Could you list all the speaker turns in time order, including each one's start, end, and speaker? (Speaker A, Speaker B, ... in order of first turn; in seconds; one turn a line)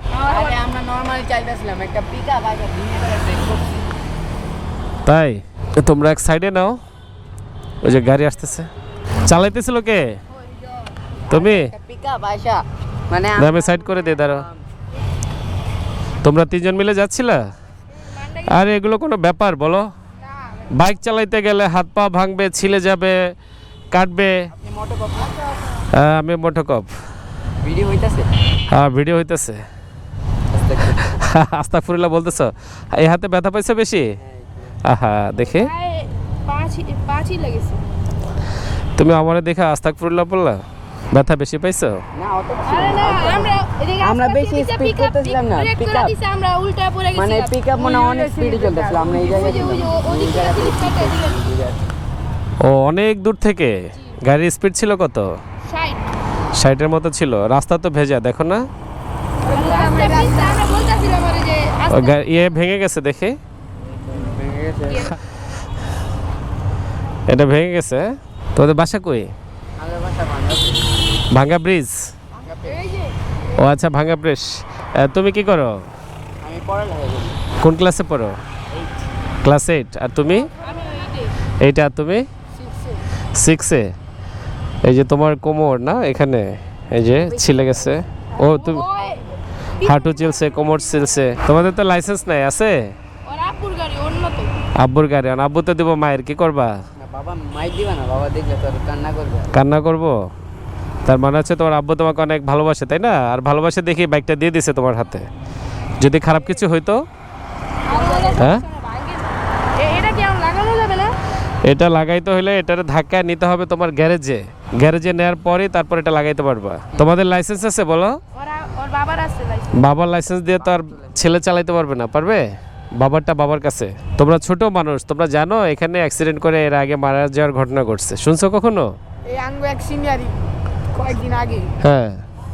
Speaker A: 0.2-0.6
Speaker B: 0.2-3.8
Speaker C: 5.0-6.8
Speaker C: 7.8-8.7
Speaker C: 9.2-10.2
Speaker B: 11.2-14.6
Speaker C: 11.3-11.7
Speaker C: 13.3-14.4
Speaker C: 16.2-17.4
Speaker A: 18.0-18.5
Speaker C: 18.4-19.9
Speaker C: 20.6-23.2
Speaker C: 23.9-24.5
Speaker B: 24.5-25.4
Speaker C: 25.8-26.9
Speaker B: 27.6-28.3
Speaker C: 28.7-29.6
Speaker B: 30.5-31.2
Speaker C: 30.9-34.1
Speaker B: 34.2-34.8
Speaker C: 34.8-35.7
Speaker A: 35.4-37.8
Speaker C: 39.0-42.0
Speaker B: 42.1-46.1
Speaker A: 42.6-47.6
Speaker B: 47.1-51.9
Speaker D: 47.7-49.2
Speaker A: 49.1-51.4
Speaker C: 52.6-55.3
Speaker A: 55.7-56.0
Speaker C: 56.5-58.6
Speaker D: 59.5-60.5
Speaker A: 59.5-62.2
Speaker C: 61.9-63.4
Speaker B: 64.0-65.1
Speaker A: 64.9-65.1
Speaker C: 67.3-69.3
Speaker B: 69.8-71.0
Speaker C: 71.3-72.0
Speaker B: 72.4-72.8
Speaker A: 72.7-73.1
Speaker C: 73.5-75.8
Speaker B: 76.4-77.5
Speaker C: 77.6-78.3
Speaker C: 79.4-80.5
Speaker A: 80.5-81.3
Speaker C: 81.6-82.2
Speaker A: 82.6-82.9
Speaker C: 83.3-83.9
Speaker C: 84.8-88.9
Speaker A: 88.3-90.8
Speaker C: 89.8-92.9
Speaker A: 93.2-94.5
Speaker C: 94.8-96.7
Speaker B: 97.0-99.5
Speaker C: 99.5-100.2
Speaker C: 101.0-105.3
Speaker C: 106.0-107.0
Speaker A: 107.8-111.1
Speaker C: 108.3-108.6
Speaker C: 111.6-118.2
Speaker A: 118.3-119.8
Speaker C: 119.7-128.9
Speaker B: 120.6-121.4
Speaker D: 129.3-130.4
Speaker D: 130.9-131.7
Speaker C: 131.8-132.2